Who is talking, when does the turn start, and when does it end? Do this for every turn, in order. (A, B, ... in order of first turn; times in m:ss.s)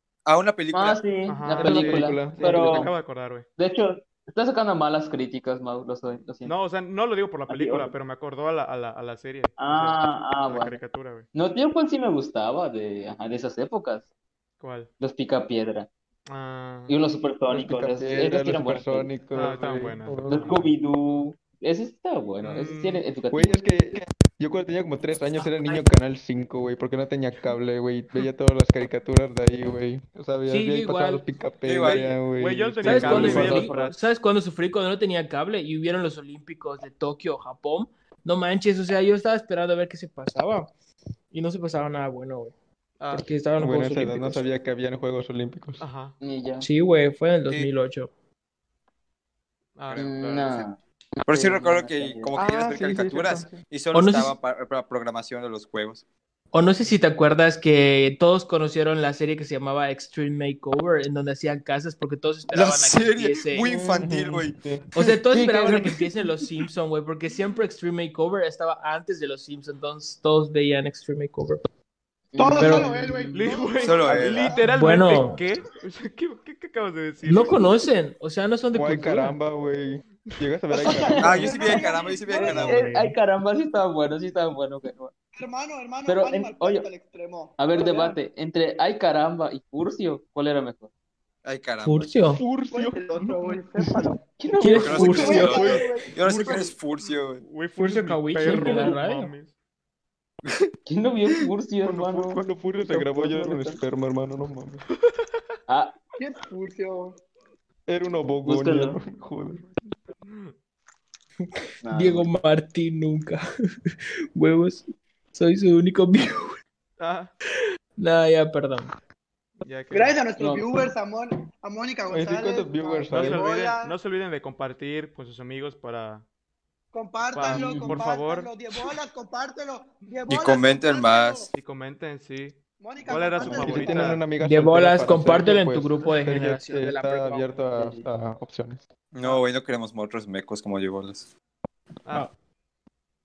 0:00.2-0:01.0 A
0:00.7-0:02.9 B
0:01.3-0:03.4 C
0:01.6-0:02.9 D
0:03.6-0:06.6 B
0:06.4-0:11.3 C
0:07.5-0:07.9 B
0:09.6-0:10.8 B
0:11.3-0:14.1 B
0:14.6-0:14.9 C
0:15.0-0:15.9 B
0:16.3-0:17.0 C
0:16.9-0:19.2 B
0:17.5-0:20.7 D
0:19.3-0:20.6 C
0:20.3-0:23.5 B
0:22.4-0:23.0 C
0:23.3-0:33.5 D
0:30.5-0:31.2 E
0:31.6-0:32.2 A
0:31.8-0:34.0 C
0:32.8-0:40.7 E
0:32.9-0:33.9 B
0:41.3-0:42.5 E
0:43.0-0:43.3 C
0:43.1-0:44.5 E
0:43.6-0:45.8 D
0:45.8-0:46.2 C
0:46.2-0:46.7 B
0:46.6-0:48.1 E
0:49.8-0:50.7 C
0:50.0-0:52.4 B
0:51.3-0:56.0 A
0:52.3-0:53.6 D
0:53.9-0:54.4 E
0:56.5-1:03.7 E
1:02.5-1:05.1 A
1:03.6-1:04.1 B
1:04.0-1:04.8 D
1:04.9-1:11.6 E
1:05.3-1:06.0 B
1:12.3-1:14.6 B
1:12.4-1:15.1 F
1:12.6-1:12.9 E
1:13.3-1:17.7 C
1:13.8-1:14.6 A
1:14.7-1:15.4 E
1:17.2-1:19.3 E
1:18.7-1:21.5 D
1:20.7-1:22.7 F
1:20.9-1:25.1 B
1:21.2-1:22.8 A
1:22.4-1:23.2 E
1:25.3-1:27.6 F
1:26.0-1:26.9 B
1:27.6-1:30.9 B
1:31.4-1:32.1 A
1:31.8-1:32.4 E
1:32.3-1:33.6 D
1:32.7-1:34.2 F
1:34.3-1:35.8 B
1:34.6-1:35.8 E
1:34.6-1:37.4 A
1:35.0-1:36.6 F
1:36.3-1:36.6 D
1:37.0-1:39.5 C
1:37.8-1:39.3 E
1:38.4-1:39.0 B
1:40.8-1:42.3 B
1:41.8-1:44.8 D
1:42.8-1:43.8 B
1:45.7-1:45.9 B
1:46.2-1:47.2 F
1:47.9-1:49.7 D
1:48.4-1:49.0 B
1:50.2-1:50.5 C
1:51.8-1:52.3 B
1:51.9-1:53.4 E
1:54.4-1:56.6 E
1:57.0-1:57.3 C
1:58.0-1:58.9 E
1:59.6-2:00.2 C
1:59.9-2:03.9 F
2:00.4-2:00.8 B
2:02.1-2:03.4 D
2:03.1-2:06.2 C
2:06.9-2:11.5 F
2:07.3-2:08.5 C
2:07.5-2:08.0 B
2:10.3-2:11.5 A
2:11.5-2:14.2 C
2:12.8-2:14.2 F
2:13.3-2:18.8 D
2:14.4-2:17.6 E
2:17.7-2:18.0 B
2:19.1-2:21.3 A
2:22.0-2:22.3 C